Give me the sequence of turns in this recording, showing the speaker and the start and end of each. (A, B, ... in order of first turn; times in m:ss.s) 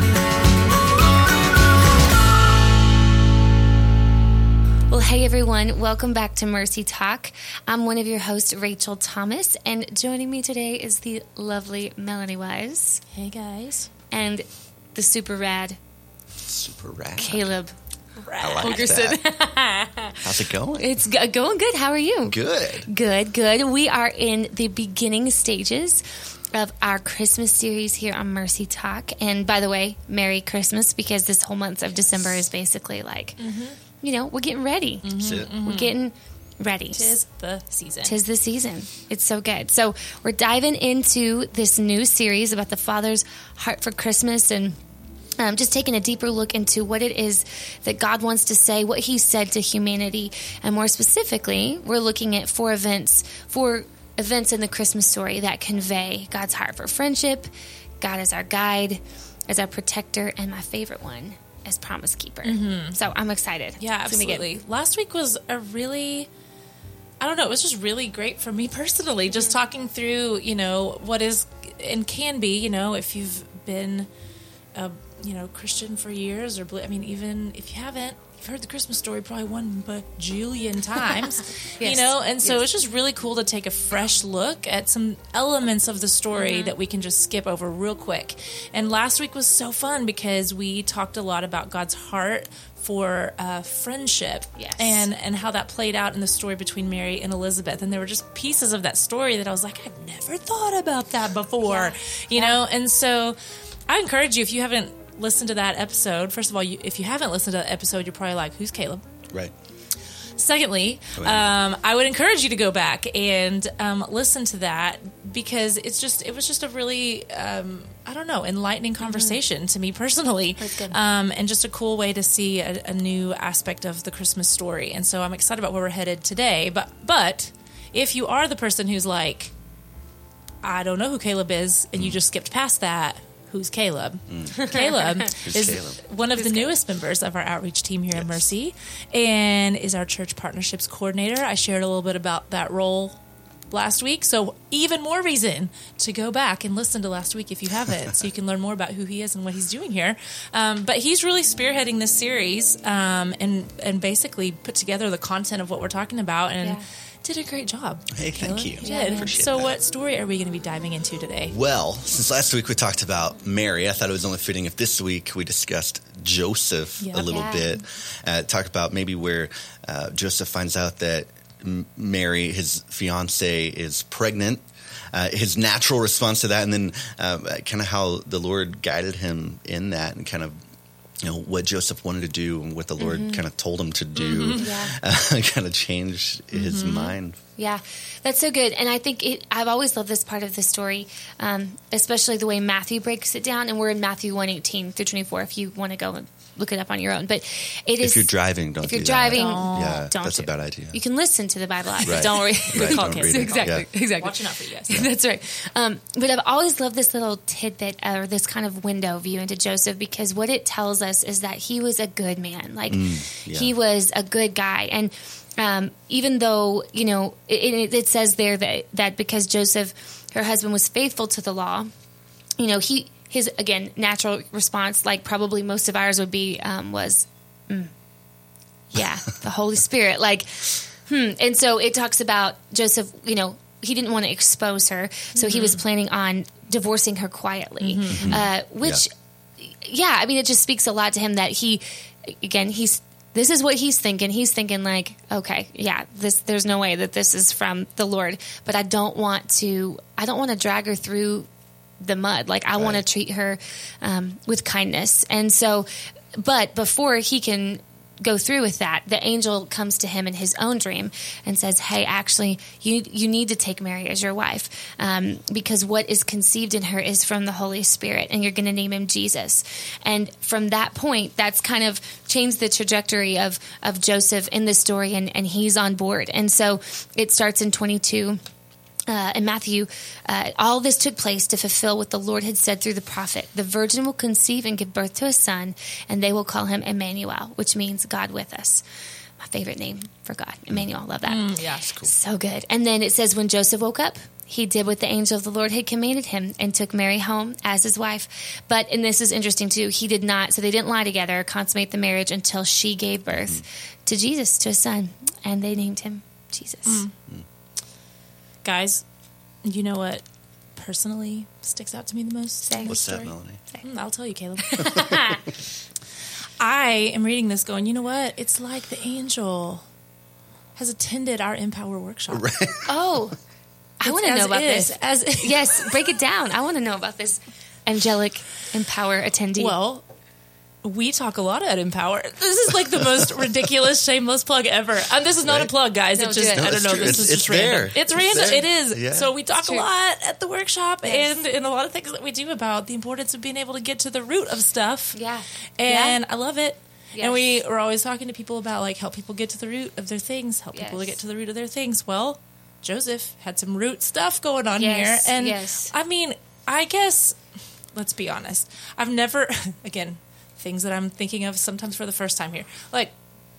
0:04.9-0:13.0 A
0:13.1-0:13.9 B
0:14.1-0:15.8 A
0:16.4-0:17.5 C
0:17.2-0:17.7 A
0:18.2-0:19.0 B
0:18.4-0:19.3 C
0:18.6-0:20.2 A
0:20.2-0:20.9 C
0:20.7-0:33.4 A
0:22.2-0:22.9 C
0:33.4-0:33.8 B
0:34.0-0:35.1 A
0:35.0-0:36.0 B
0:35.2-0:35.5 C
0:35.6-0:37.1 A
0:36.9-0:38.2 B
0:38.0-0:44.8 A
0:45.4-0:57.5 A
0:58.0-1:04.5 A
1:02.4-1:03.0 B
1:03.8-1:06.3 B
1:07.2-1:14.1 B
1:09.3-1:09.6 A
1:14.7-1:43.4 B
1:21.8-1:22.7 A
1:26.3-1:26.8 A
1:34.6-1:35.0 A
1:41.6-1:42.6 A
1:43.9-1:49.0 B
1:50.4-2:09.5 B
1:51.2-1:51.5 C
1:59.0-1:59.4 A
2:00.6-2:01.0 A
2:10.6-2:23.2 B
2:14.3-2:14.7 C
2:14.6-2:15.3 A
2:15.4-2:16.0 C
2:16.3-2:16.8 A
2:18.1-2:18.5 C
2:23.7-2:41.5 B
2:38.1-2:39.8 C
2:38.8-2:39.3 A
2:41.5-3:00.6 C
2:47.0-2:47.4 B
2:47.3-2:47.8 A
3:01.2-3:07.4 C
3:03.0-3:03.4 A
3:04.2-3:04.8 B
3:04.5-3:04.9 A
3:06.5-3:07.1 B
3:07.6-3:41.9 A
3:18.0-3:21.0 C
3:19.3-3:20.1 B
3:22.0-3:25.1 B
3:22.0-3:23.8 C
3:32.9-3:33.7 C
3:42.6-3:47.9 A
3:48.9-3:59.1 A
3:55.3-3:55.8 B
3:57.8-3:58.5 B
3:58.1-3:59.0 C
3:59.6-4:11.5 A
4:12.0-4:38.4 A
4:12.8-4:13.0 C
4:39.1-4:48.8 A
4:49.4-5:07.0 A
4:51.3-4:52.0 B
5:03.3-5:03.6 C
5:06.8-5:07.1 B
5:08.6-5:09.0 B
5:09.6-5:10.2 B
5:10.8-5:14.9 B
5:12.6-5:13.0 A
5:12.8-5:13.6 C
5:14.6-5:15.5 A
5:16.6-5:19.8 B
5:20.8-5:22.5 B
5:22.3-5:22.9 C
5:22.8-5:23.4 A
5:24.0-5:29.8 A
5:24.0-5:26.1 B
5:29.5-5:30.0 B
5:30.8-5:45.2 B
5:35.4-5:35.7 C
5:36.1-5:37.3 A
5:36.5-5:39.3 C
5:38.2-5:38.6 A
5:39.5-5:39.9 A
5:41.0-5:41.4 A
5:45.1-5:46.2 A
5:45.8-5:57.4 B
5:47.1-5:47.6 A
5:50.7-5:51.2 A
5:54.7-5:55.9 A
5:57.9-6:03.1 B